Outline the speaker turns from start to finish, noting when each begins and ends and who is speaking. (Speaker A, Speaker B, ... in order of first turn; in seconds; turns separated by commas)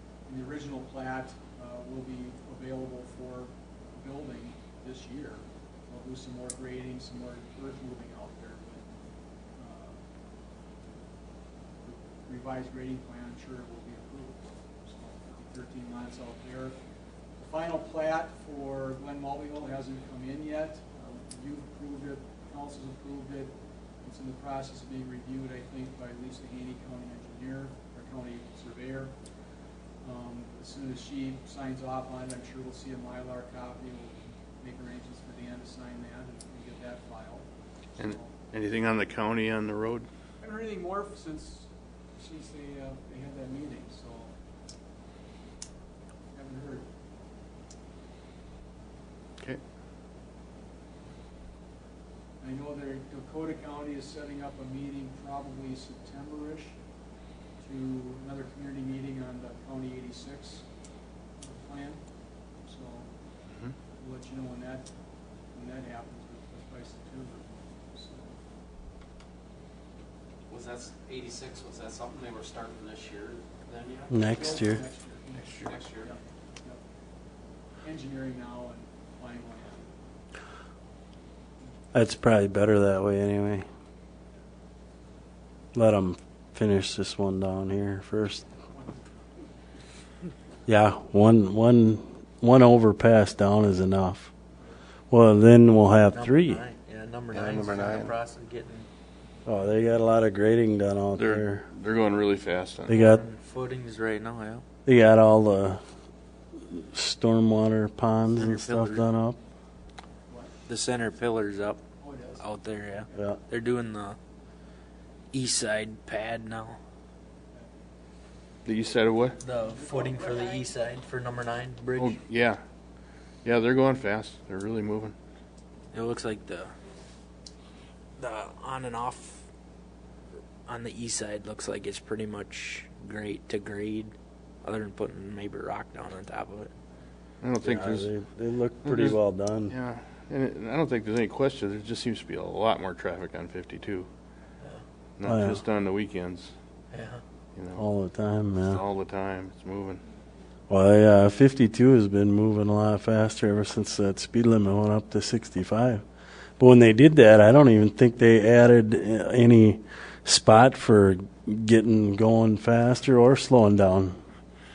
Speaker A: 0.3-8.8, Speaker A: 9.6-10.0, Speaker A: 11.8-16.8, Speaker A: 17.4-29.1, Speaker A: 30.0-37.5, Speaker B: 38.0-40.1, Speaker A: 38.0-38.3, Speaker A: 40.4-44.3, Speaker A: 46.3-46.9, Speaker A: 52.4-56.8, Speaker A: 57.6-60.7, Speaker A: 61.4-62.0, Speaker A: 62.7-63.1, Speaker A: 64.0-64.9, Speaker A: 65.5-68.4, Speaker C: 70.5-74.7, Speaker D: 74.1-74.8, Speaker A: 74.2-76.8, Speaker C: 75.4-76.1, Speaker A: 77.8-80.0, Speaker D: 81.9-83.7, Speaker D: 85.7-88.5, Speaker A: 88.7-89.1, Speaker D: 90.7-94.3, Speaker D: 95.1-96.6, Speaker E: 96.1-98.9, Speaker D: 99.5-101.6, Speaker B: 101.2-103.0, Speaker D: 102.9-103.2, Speaker E: 103.0-104.6, Speaker D: 104.9-105.8, Speaker D: 106.7-109.4, Speaker E: 108.3-109.0, Speaker A: 110.3-110.5, Speaker E: 110.7-111.8, Speaker A: 112.0-112.4, Speaker E: 112.4-114.2, Speaker E: 115.3-116.8, Speaker A: 117.5-117.8, Speaker B: 118.7-119.4, Speaker E: 119.4-122.2, Speaker A: 119.6-120.6, Speaker B: 122.0-122.6, Speaker B: 123.4-125.2, Speaker E: 125.9-126.7, Speaker E: 128.2-129.4, Speaker E: 130.7-136.7, Speaker B: 137.4-138.1, Speaker D: 137.6-139.7, Speaker B: 138.8-139.2, Speaker B: 139.7-144.1, Speaker B: 145.2-146.5, Speaker D: 145.2-145.6, Speaker E: 146.9-147.2, Speaker B: 147.6-147.8, Speaker D: 147.8-148.8, Speaker B: 148.6-150.0, Speaker D: 150.7-156.0, Speaker D: 156.6-164.2